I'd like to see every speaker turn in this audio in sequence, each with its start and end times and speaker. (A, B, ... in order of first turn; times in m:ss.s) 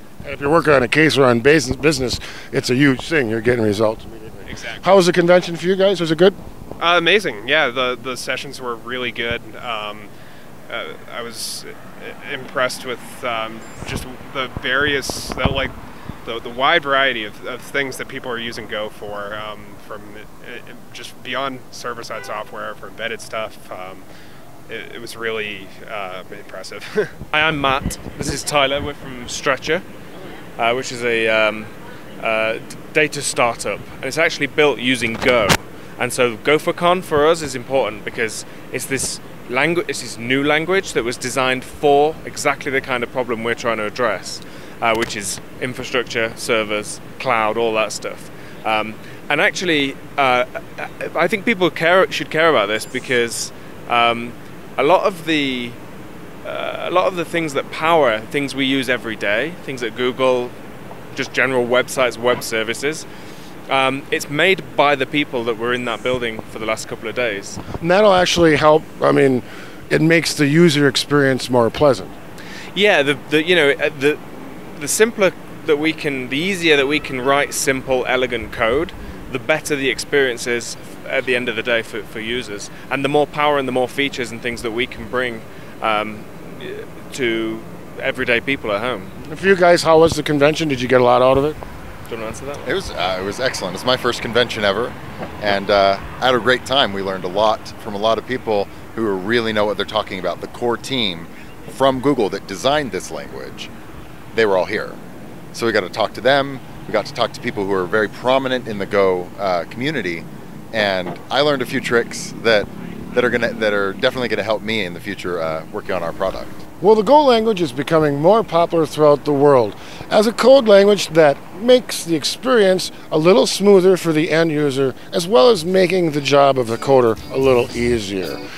0:00.2-0:06.4 A
0:04.5-0:05.0 B
0:06.8-0:10.1 B
0:10.7-0:15.7 B
0:16.2-0:24.0 B
0:24.7-0:27.1 B
0:27.3-0:29.8 C
0:30.6-0:55.8 C
0:56.4-1:00.5 C
1:01.1-1:03.1 C
1:03.7-1:07.6 C
1:07.8-1:12.1 A
1:12.7-1:29.2 C
1:29.2-1:31.6 A
1:32.1-1:32.7 C
1:32.6-1:43.7 D
1:44.3-1:45.0 D
1:45.5-1:56.6 D
1:56.8-2:08.4 A